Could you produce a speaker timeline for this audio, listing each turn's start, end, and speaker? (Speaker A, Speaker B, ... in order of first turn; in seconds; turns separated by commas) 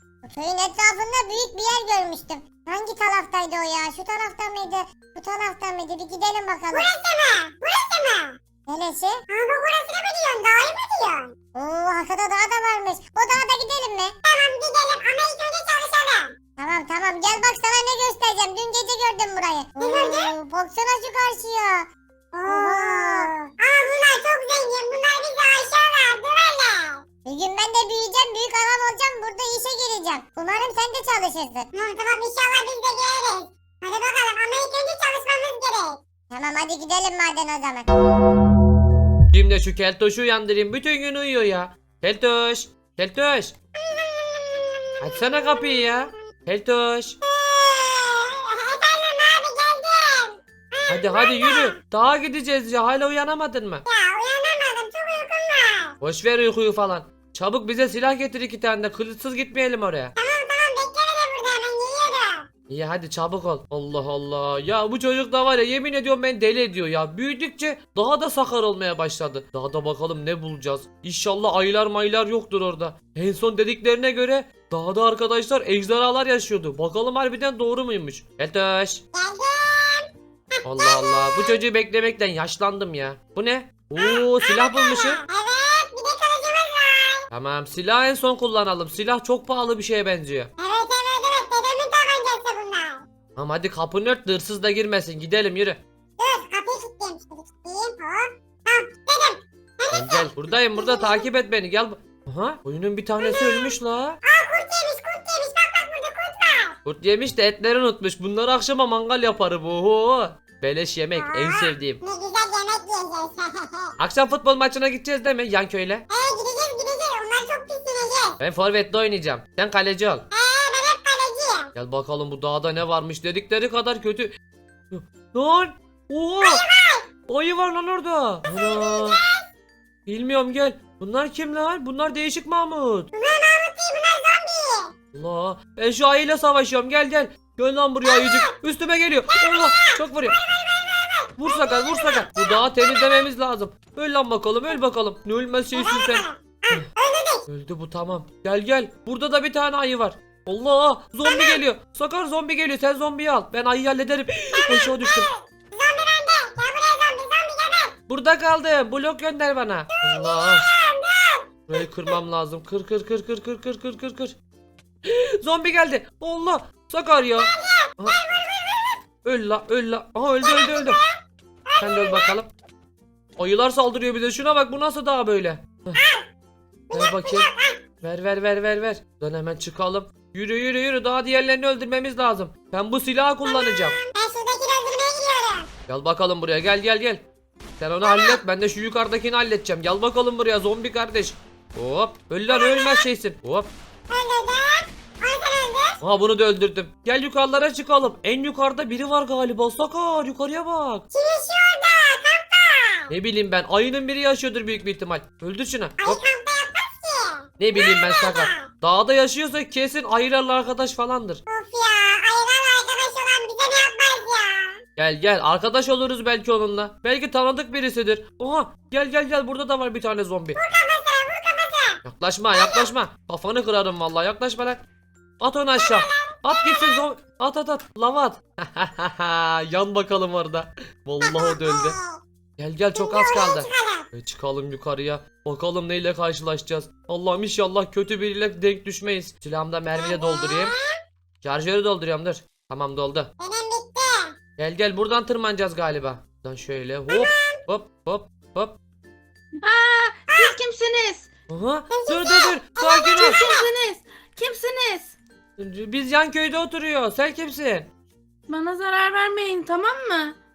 Speaker A: 0.2-6.9, Speaker B: 6.7-8.4, Speaker A: 8.7-9.2, Speaker B: 9.3-11.3, Speaker A: 11.5-14.1, Speaker B: 14.2-16.3, Speaker A: 16.6-21.9, Speaker B: 19.8-20.3, Speaker B: 22.3-27.0, Speaker A: 22.4-23.4, Speaker A: 27.2-31.7, Speaker B: 31.7-36.0, Speaker A: 36.3-37.9, Speaker C: 39.3-43.5, Speaker B: 43.8-45.9, Speaker C: 45.0-47.2, Speaker B: 47.3-51.8, Speaker C: 50.9-53.8, Speaker B: 53.9-55.9, Speaker C: 56.0-60.1, Speaker B: 60.2-62.5, Speaker C: 62.7-79.0, Speaker B: 79.1-81.6, Speaker C: 80.6-85.2, Speaker B: 84.0-87.2, Speaker C: 87.3-90.5, Speaker B: 90.6-93.0, Speaker C: 93.3-95.8, Speaker B: 96.2-101.2, Speaker C: 99.9-104.2, Speaker B: 103.2-103.7, Speaker B: 104.2-106.8, Speaker C: 106.8-112.0, Speaker B: 111.2-113.9, Speaker C: 114.0-116.0, Speaker B: 116.1-118.4, Speaker C: 118.4-120.2, Speaker B: 120.3-121.7, Speaker C: 121.7-124.3, Speaker C: 124.9-126.6, Speaker B: 126.4-127.0, Speaker C: 127.3-129.2, Speaker B: 128.4-129.4, Speaker C: 130.1-133.1, Speaker B: 133.1-134.9, Speaker C: 135.1-140.4, Speaker B: 138.0-138.5, Speaker B: 139.3-143.2, Speaker C: 141.4-146.8, Speaker B: 145.8-147.4, Speaker C: 147.5-155.3, Speaker B: 151.2-151.6, Speaker B: 154.5-157.9, Speaker C: 158.1-160.7, Speaker B: 159.9-161.8, Speaker C: 161.7-164.3, Speaker C: 165.0-168.2, Speaker B: 167.4-169.0, Speaker C: 169.2-171.0, Speaker B: 170.4-171.1, Speaker B: 171.7-172.3, Speaker C: 171.8-172.5, Speaker C: 173.4-176.0, Speaker B: 176.0-176.2, Speaker B: 176.9-177.8, Speaker C: 176.9-184.0, Speaker B: 183.4-185.7, Speaker C: 185.9-187.2, Speaker C: 187.8-193.7, Speaker B: 188.0-188.4, Speaker B: 192.5-193.0, Speaker B: 194.1-196.0, Speaker C: 196.0-201.0, Speaker B: 201.1-203.1, Speaker C: 203.1-206.2, Speaker B: 206.0-208.7, Speaker C: 207.6-211.4, Speaker B: 211.5-214.8, Speaker C: 215.0-220.6, Speaker B: 220.6-222.0, Speaker C: 222.0-224.8, Speaker B: 222.5-222.9, Speaker C: 225.4-232.0, Speaker B: 225.8-227.0, Speaker B: 231.2-232.2, Speaker C: 232.6-240.8, Speaker B: 232.9-234.1, Speaker B: 240.0-240.8, Speaker C: 241.4-243.3, Speaker B: 243.4-244.3, Speaker C: 244.6-248.8, Speaker B: 247.1-247.6, Speaker D: 249.6-251.3, Speaker C: 251.5-253.4, Speaker B: 251.9-253.6, Speaker D: 253.2-255.1, Speaker C: 255.6-257.9, Speaker D: 258.5-260.4